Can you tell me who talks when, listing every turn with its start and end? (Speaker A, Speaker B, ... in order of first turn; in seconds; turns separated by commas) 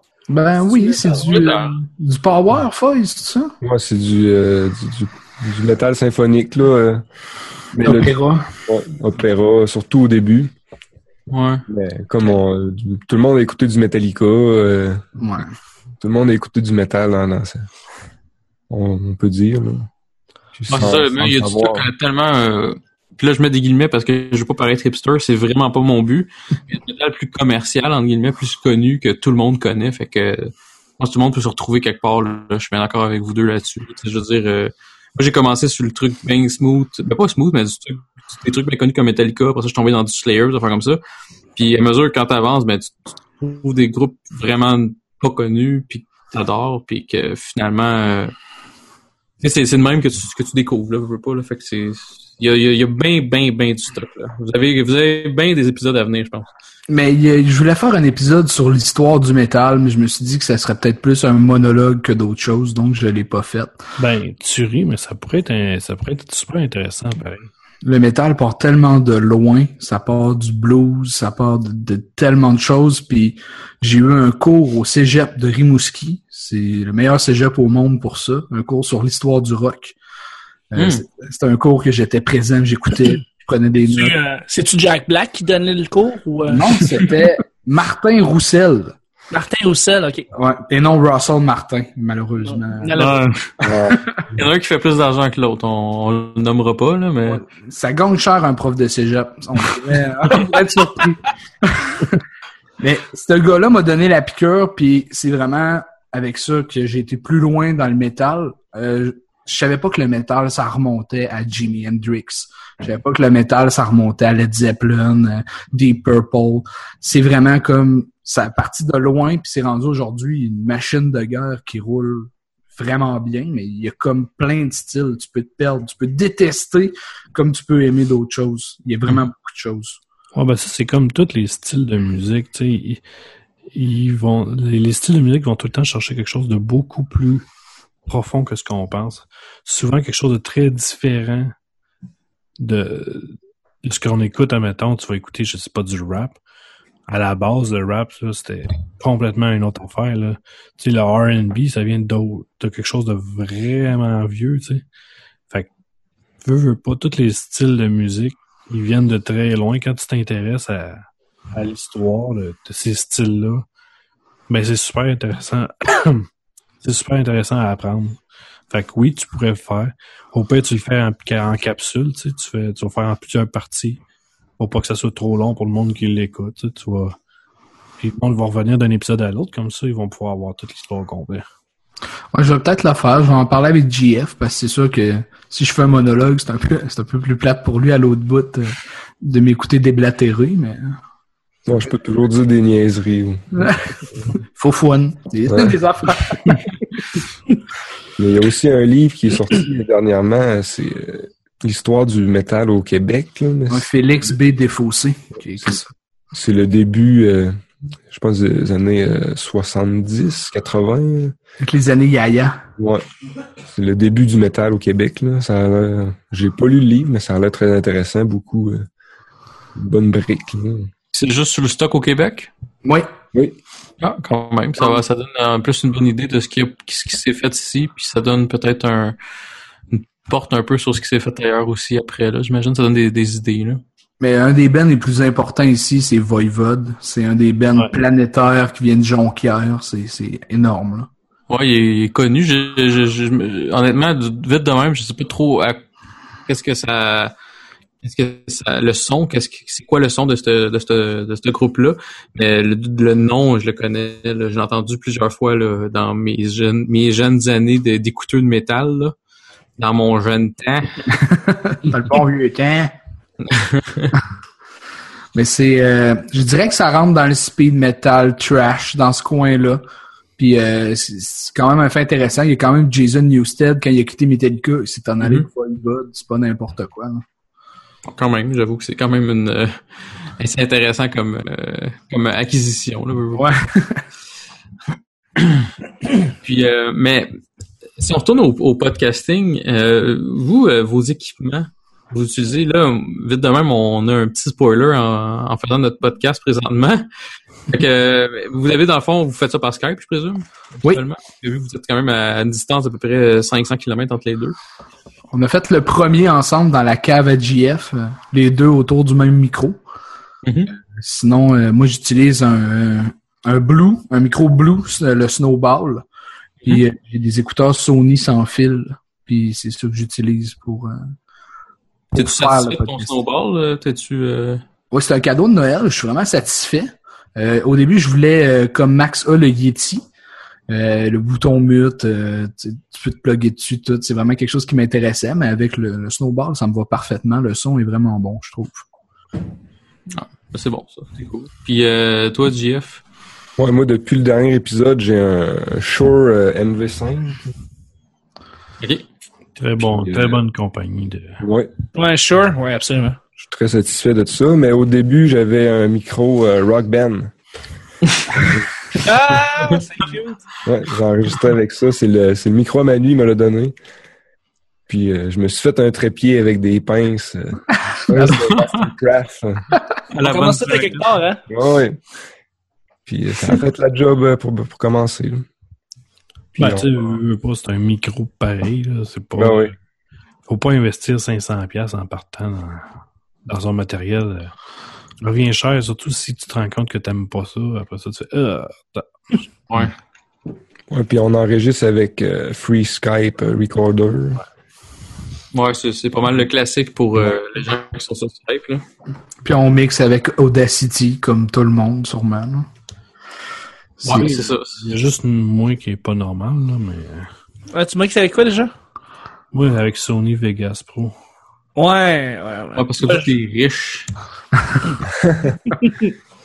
Speaker A: 0.3-3.5, Speaker B: 0.8-1.7, Speaker C: 3.6-7.0, Speaker C: 7.7-10.5, Speaker A: 7.8-8.5, Speaker B: 11.3-11.6, Speaker C: 11.7-15.0, Speaker A: 15.2-15.5, Speaker C: 16.0-17.7, Speaker C: 18.7-19.9, Speaker C: 20.6-21.9, Speaker B: 20.7-41.0, Speaker B: 41.6-48.3, Speaker B: 49.4-56.5, Speaker A: 56.9-63.8, Speaker D: 64.0-67.5, Speaker A: 67.8-80.0, Speaker A: 80.7-84.2, Speaker B: 80.8-81.0, Speaker E: 83.8-86.9, Speaker A: 86.5-89.0, Speaker E: 89.3-90.3, Speaker A: 90.3-93.0, Speaker E: 92.4-93.2, Speaker B: 92.9-93.5, Speaker C: 93.6-94.0, Speaker A: 93.6-94.2, Speaker B: 94.3-97.4, Speaker A: 97.3-102.2, Speaker A: 102.8-130.0, Speaker D: 130.3-133.0, Speaker D: 133.7-137.4, Speaker D: 138.1-141.6, Speaker D: 142.6-146.4, Speaker D: 147.1-154.8, Speaker D: 156.4-163.6, Speaker D: 164.5-166.3, Speaker D: 166.8-168.2, Speaker D: 168.7-174.0, Speaker D: 174.6-177.2, Speaker D: 178.0-181.4, Speaker A: 182.3-191.0, Speaker C: 191.7-193.8, Speaker A: 193.6-193.8, Speaker A: 194.4-196.7, Speaker C: 195.5-195.8, Speaker C: 198.2-203.9, Speaker A: 203.7-205.9, Speaker C: 206.3-211.3, Speaker A: 211.6-212.6, Speaker C: 212.8-213.1, Speaker C: 213.6-218.9, Speaker C: 219.7-220.9, Speaker B: 221.1-222.5, Speaker B: 224.0-229.2, Speaker B: 229.9-233.8, Speaker A: 234.2-241.1, Speaker B: 241.5-245.8, Speaker B: 246.5-247.3, Speaker B: 248.0-259.1, Speaker B: 259.8-261.0, Speaker A: 261.1-262.9, Speaker B: 263.4-264.1, Speaker A: 265.4-269.8, Speaker A: 270.4-277.2, Speaker B: 275.2-275.5, Speaker B: 278.1-279.8, Speaker B: 280.4-283.6, Speaker A: 283.4-284.0, Speaker B: 286.4-287.3, Speaker B: 288.0-297.1, Speaker B: 297.7-304.6, Speaker A: 305.3-309.8, Speaker B: 310.4-310.7, Speaker A: 310.9-316.1, Speaker A: 316.6-321.0, Speaker A: 322.1-323.2, Speaker B: 322.2-324.6, Speaker A: 324.9-330.1, Speaker A: 330.7-338.9, Speaker B: 340.1-343.0, Speaker C: 343.6-347.5, Speaker D: 349.6-351.4, Speaker C: 349.8-350.4, Speaker C: 351.4-351.7, Speaker E: 351.9-353.2, Speaker C: 353.4-357.4, Speaker C: 358.3-358.7, Speaker E: 359.0-360.4, Speaker C: 360.6-363.7, Speaker C: 364.9-369.7, Speaker B: 368.4-368.8, Speaker B: 370.1-371.1, Speaker E: 370.2-371.4, Speaker C: 371.5-372.0, Speaker C: 373.1-375.5, Speaker D: 376.6-379.7, Speaker C: 376.6-377.2, Speaker C: 379.4-379.7, Speaker D: 380.5-382.9, Speaker D: 383.5-384.5, Speaker D: 385.2-389.4, Speaker B: 389.7-389.9, Speaker C: 390.9-394.4, Speaker B: 395.5-398.9, Speaker A: 399.4-402.7, Speaker A: 404.0-404.3, Speaker B: 404.0-404.8, Speaker D: 404.1-407.3, Speaker E: 407.7-408.7, Speaker D: 409.5-411.1, Speaker E: 411.8-413.3, Speaker B: 412.8-414.1, Speaker E: 415.8-416.1